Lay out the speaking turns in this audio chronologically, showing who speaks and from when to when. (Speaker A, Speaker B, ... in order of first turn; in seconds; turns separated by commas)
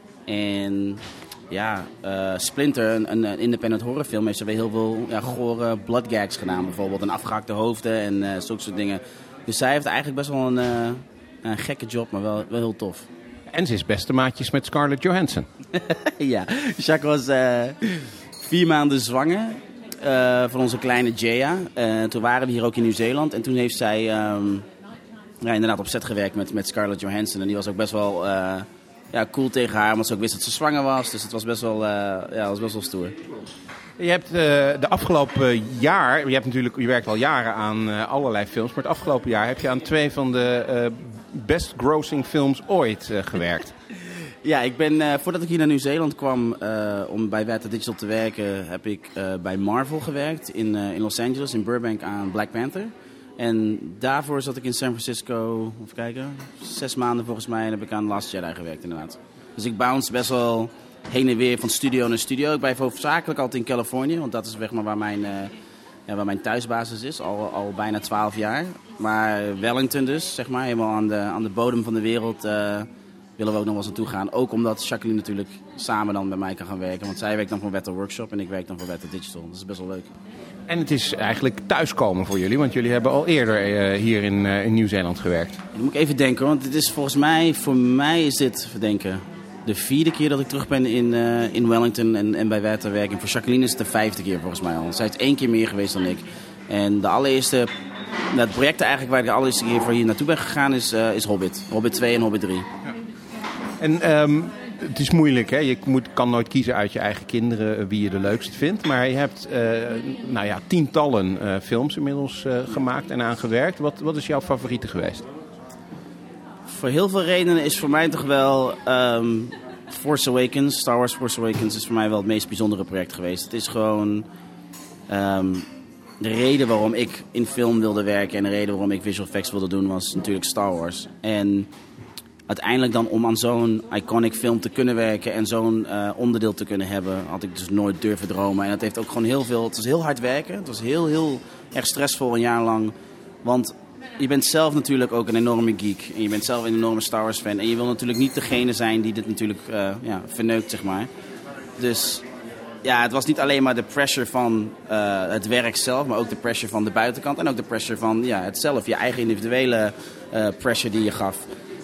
Speaker A: 0.3-13.1, Speaker B: 13.5-15.5, Speaker A: 15.8-24.6, Speaker A: 25.4-33.2, Speaker B: 34.0-43.7, Speaker A: 44.4-65.5, Speaker A: 66.1-80.1, Speaker B: 80.7-85.6, Speaker A: 85.7-97.7, Speaker A: 98.3-102.7, Speaker B: 103.8-115.2, Speaker A: 116.7-124.2, Speaker A: 125.1-125.7, Speaker A: 126.2-131.7, Speaker A: 132.5-151.1, Speaker A: 151.8-152.2, Speaker A: 152.8-161.4